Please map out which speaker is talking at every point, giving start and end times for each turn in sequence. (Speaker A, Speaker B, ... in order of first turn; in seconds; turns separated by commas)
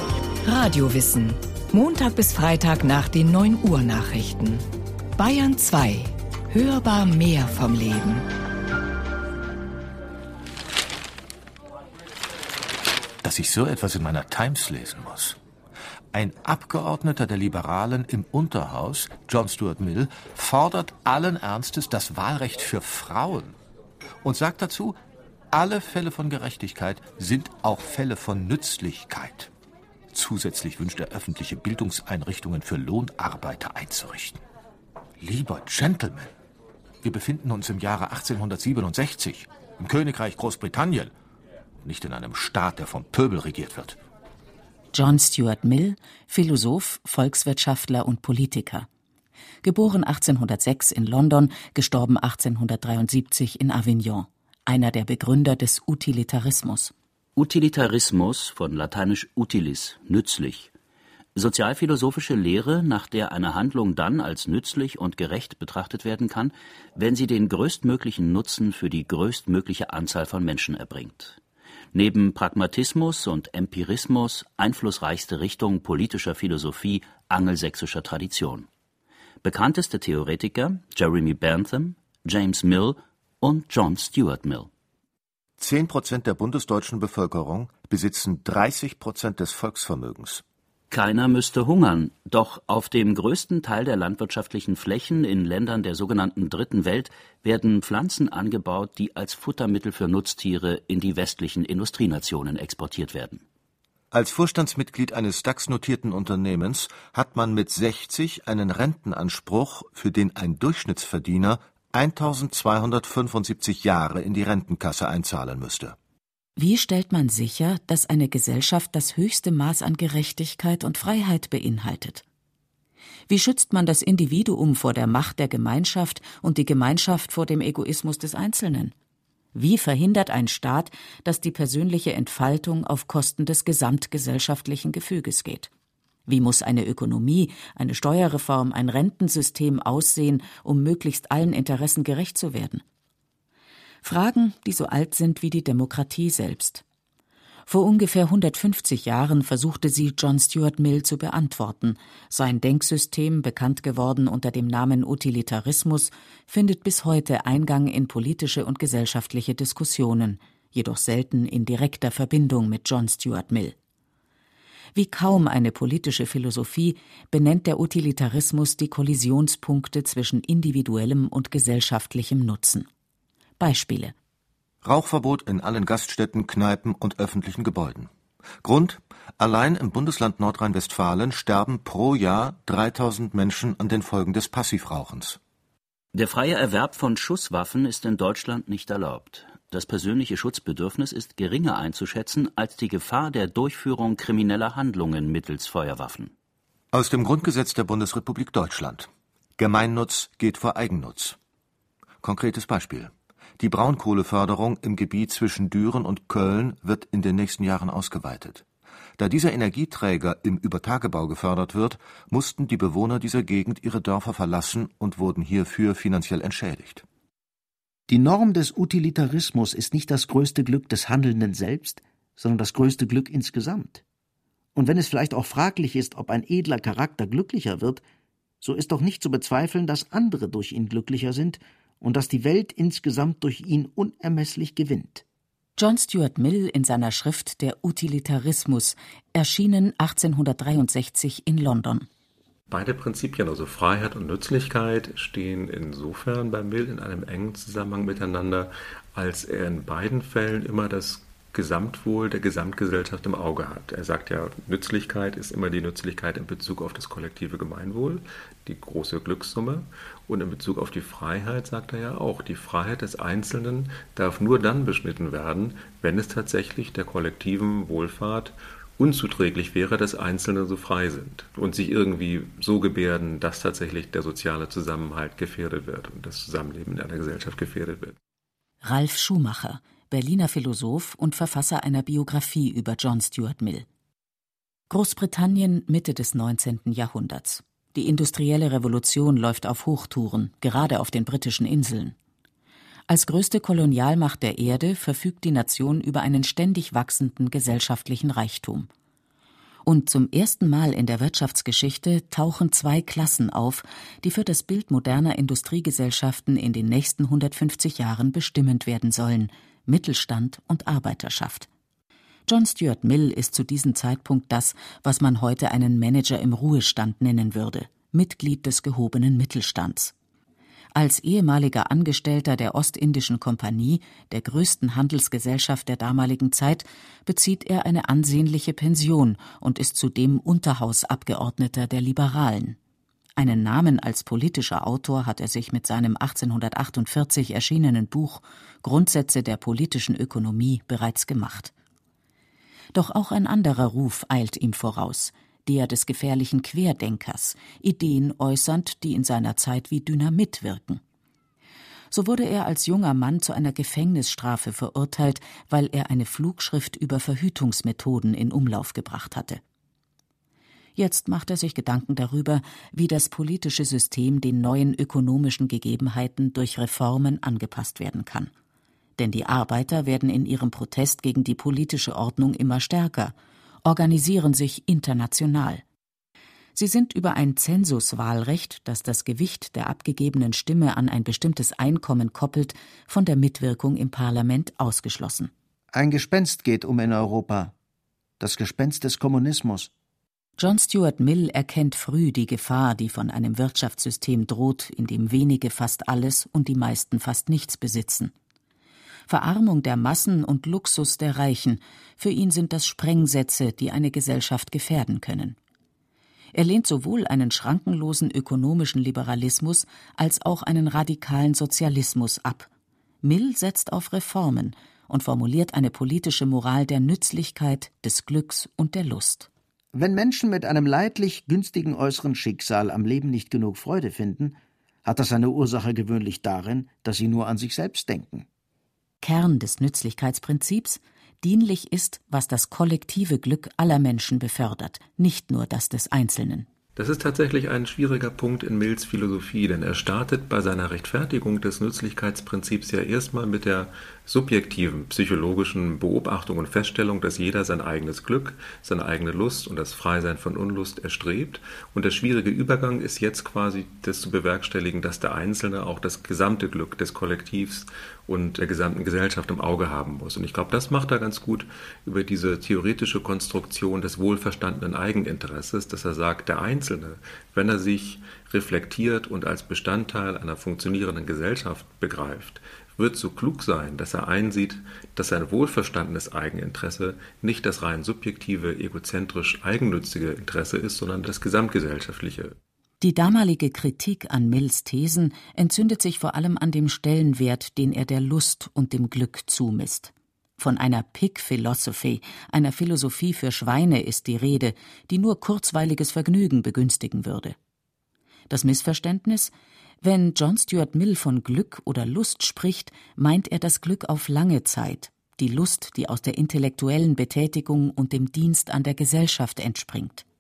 Speaker A: 0.5-4.6, Speaker A: 5.2-8.2, Speaker B: 13.2-15.4, Speaker B: 16.1-23.6, Speaker B: 24.2-25.0, Speaker B: 25.5-29.5, Speaker B: 30.1-34.4, Speaker B: 35.2-36.3, Speaker B: 37.0-41.1, Speaker B: 41.8-44.0, Speaker C: 44.9-48.9, Speaker C: 49.6-56.9, Speaker D: 57.4-60.7, Speaker D: 61.4-71.4, Speaker D: 71.9-78.7, Speaker D: 79.4-84.7, Speaker B: 85.6-90.4, Speaker D: 90.9-103.4, Speaker B: 104.1-116.0, Speaker C: 116.6-122.2, Speaker C: 123.3-128.9, Speaker C: 129.5-135.7, Speaker C: 136.3-142.8, Speaker C: 144.0-146.8, Speaker C: 147.7-163.8, Speaker C: 164.9-172.9, Speaker C: 173.6-174.1, Speaker B: 174.8-178.1, Speaker B: 178.6-185.4, Speaker D: 186.1-196.3, Speaker B: 196.9-201.4, Speaker B: 202.2-208.6, Speaker B: 209.2-217.0, Speaker E: 218.1-224.0, Speaker E: 224.8-228.0, Speaker E: 228.6-235.2, Speaker C: 235.8-242.1, Speaker F: 242.7-278.2, Speaker C: 278.8-283.9, Speaker C: 284.9-292.2, Speaker C: 293.1-298.9, Speaker C: 299.9-311.7, Speaker C: 312.5-320.1, Speaker C: 320.9-332.8, Speaker C: 333.4-341.7, Speaker C: 342.9-351.0, Speaker C: 352.1-359.6, Speaker C: 361.0-368.5, Speaker C: 369.2-375.8, Speaker C: 376.8-385.5, Speaker E: 385.9-387.7, Speaker E: 388.4-389.9, Speaker C: 390.6-398.3, Speaker C: 399.3-405.6, Speaker C: 406.5-412.7, Speaker C: 413.2-419.5, Speaker E: 419.9-428.5, Speaker C: 429.2-436.7, Speaker F: 437.0-482.6, Speaker C: 483.0-497.6, Speaker C: 498.5-510.2